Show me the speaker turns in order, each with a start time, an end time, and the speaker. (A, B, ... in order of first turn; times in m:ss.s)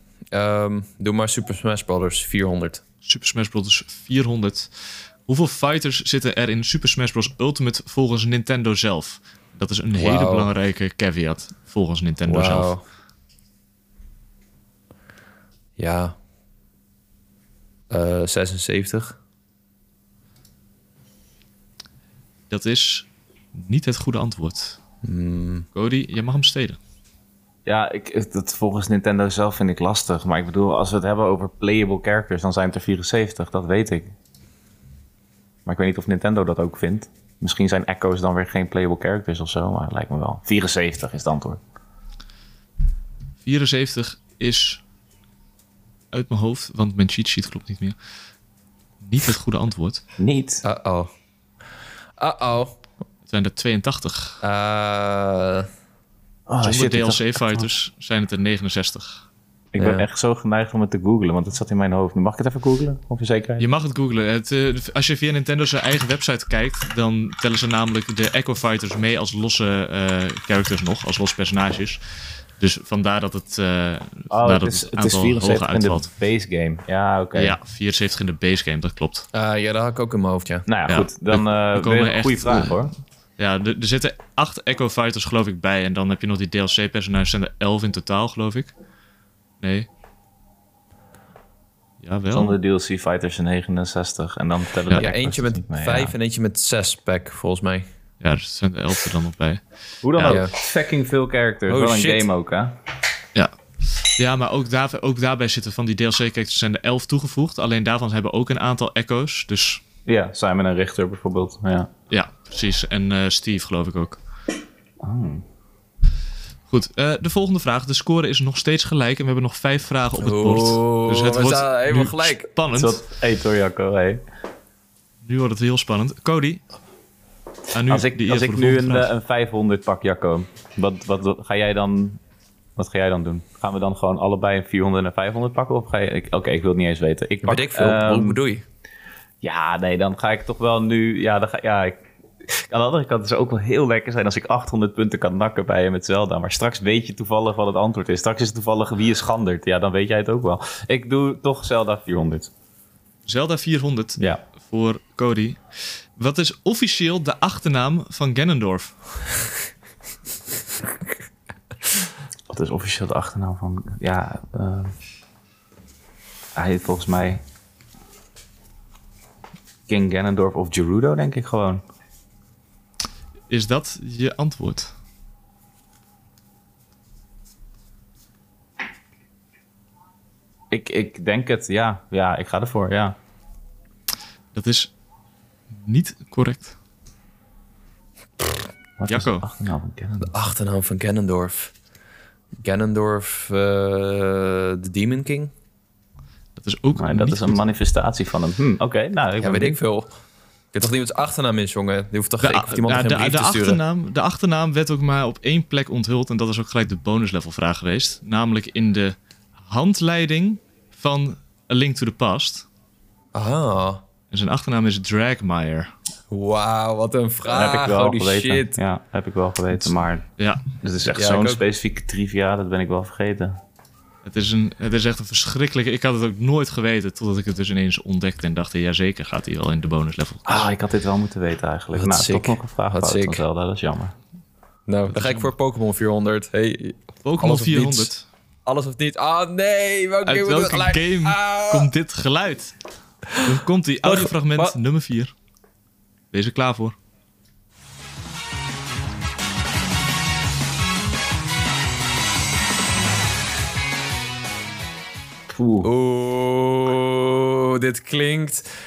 0:00.3-0:02.8 A
0:03.0-0:04.7 B
0:05.3-0:12.7 B
0:09.9-0:10.5 A
0:12.3-0:12.8 A
0:15.8-0:16.2 A
0:17.9-0:19.2 A
0:22.5-0:24.8 B
0:25.0-0:25.7 A
0:25.7-0:26.8 B
0:27.6-0:34.1 C
0:35.6-0:41.6 C
0:43.4-0:44.8 B
0:46.1-0:48.0 B
0:49.0-0:50.0 B
0:50.2-0:50.6 C
0:50.6-0:51.1 A
0:52.2-0:52.8 A
0:53.3-0:54.4 B
0:54.4-0:55.7 A
0:56.5-0:57.7 C
0:56.6-0:59.2 B
0:59.7-1:03.6 C
0:59.8-1:00.1 A
1:03.6-1:12.0 B
1:12.6-1:16.0 B
1:14.3-1:17.6 C
1:17.3-1:19.3 B
1:19.3-1:20.7 A
1:20.7-1:22.9 C
1:20.9-1:22.8 B
1:23.4-1:28.7 B
1:29.6-1:29.9 B
1:32.0-1:32.6 B
1:32.3-1:36.1 C
1:34.9-1:37.9 A
1:38.2-1:39.6 B
1:40.0-1:42.8 C
1:40.2-1:40.5 A
1:41.7-1:42.3 A
1:43.3-1:49.8 B
1:50.0-1:51.9 C
1:52.1-1:54.2 B
1:55.0-1:55.4 C
1:56.7-2:03.0 B
2:00.2-2:02.5 A
2:02.7-2:04.2 C
2:05.2-2:06.6 B
2:07.7-2:09.1 B
2:07.9-2:12.2 C
2:12.8-2:18.4 C
2:17.4-2:18.6 A
2:19.4-2:32.5 C
2:33.2-2:35.6 B
2:36.2-2:38.9 B
2:42.5-2:44.9 C
2:46.6-2:47.4 C
2:49.9-2:51.8 C
2:53.5-2:54.9 B
3:00.7-3:03.2 C
3:04.5-3:04.9 B
3:05.7-3:06.7 B
3:09.0-3:10.3 C
3:09.1-3:09.4 B
3:10.2-3:11.7 A
3:12.6-3:15.5 A
3:16.6-3:17.6 B
3:17.0-3:19.8 C
3:19.4-3:20.1 A
3:20.7-3:23.8 A
3:22.4-3:32.6 B
3:33.3-3:34.0 A
3:34.3-3:35.9 B
3:36.3-3:38.8 A
3:37.5-3:40.3 C
3:40.4-3:40.6 B
3:40.8-3:43.6 C
3:41.1-3:41.6 A
3:44.2-3:50.7 B
3:50.4-3:54.1 C
3:51.9-3:53.4 A
3:54.9-3:58.1 A
3:55.1-3:55.5 B
3:57.2-3:58.2 B
3:58.6-4:01.9 A
4:00.2-4:02.7 B
4:03.4-4:05.3 B
4:04.0-4:04.8 A
4:06.3-4:06.9 B
4:15.5-4:15.9 C
4:15.8-4:18.6 A